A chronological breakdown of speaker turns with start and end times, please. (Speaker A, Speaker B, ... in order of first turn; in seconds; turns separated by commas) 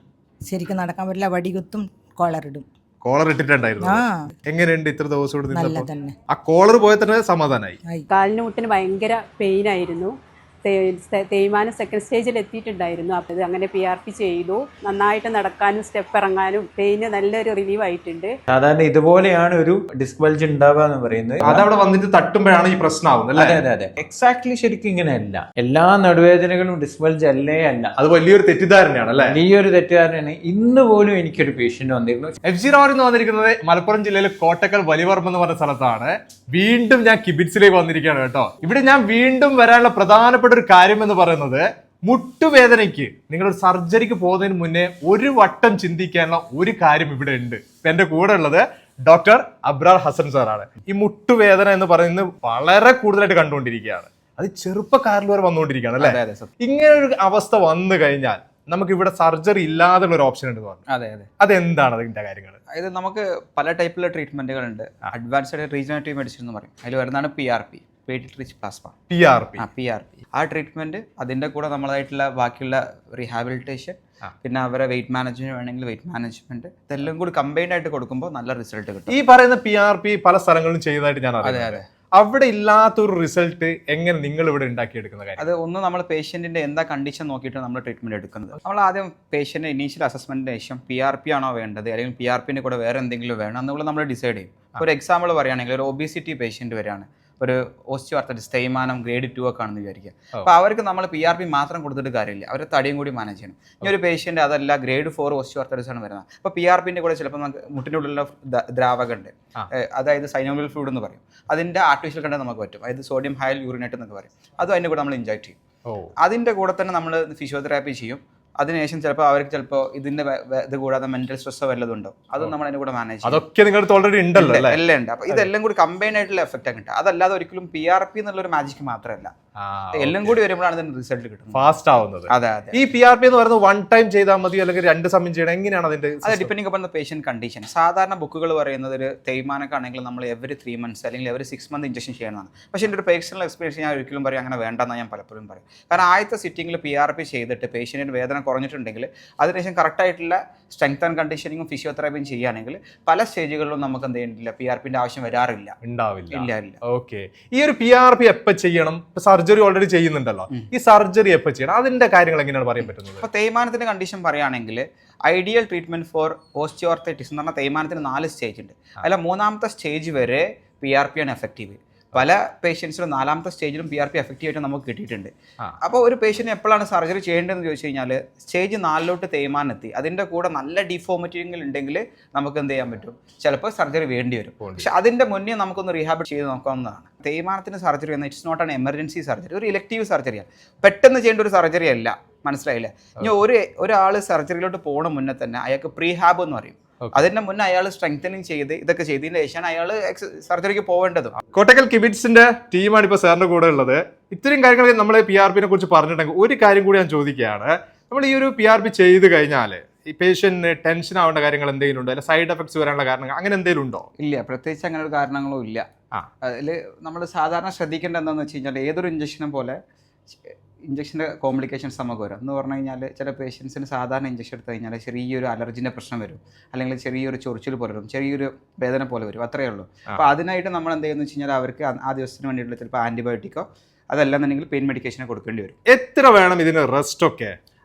Speaker A: 0.5-2.7, Speaker B: 3.0-7.8, Speaker A: 3.8-4.3, Speaker A: 5.5-6.2, Speaker C: 8.1-18.3, Speaker D: 18.5-21.7, Speaker B: 21.4-23.6, Speaker D: 23.4-27.9, Speaker B: 28.0-29.4, Speaker D: 29.2-32.4, Speaker B: 32.5-60.8, Speaker E: 56.0-56.5, Speaker E: 60.9-61.3, Speaker B: 61.4-62.6, Speaker E: 62.7-69.0, Speaker B: 69.1-69.7, Speaker E: 69.6-79.1, Speaker B: 79.1-85.4, Speaker E: 81.4-81.8, Speaker E: 85.4-115.6, Speaker B: 115.9-116.1, Speaker E: 116.2-123.5, Speaker B: 123.2-124.8, Speaker E: 124.3-129.3, Speaker B: 129.6-130.4, Speaker E: 129.9-131.7, Speaker B: 131.5-136.5, Speaker E: 132.3-132.8, Speaker E: 136.2-155.8, Speaker B: 155.8-163.2, Speaker E: 156.3-156.8, Speaker E: 163.2-201.3, Speaker B: 184.6-184.9, Speaker B: 201.4-214.1, Speaker E: 214.2-215.9, Speaker E: 216.4-235.8, Speaker B: 235.9-237.6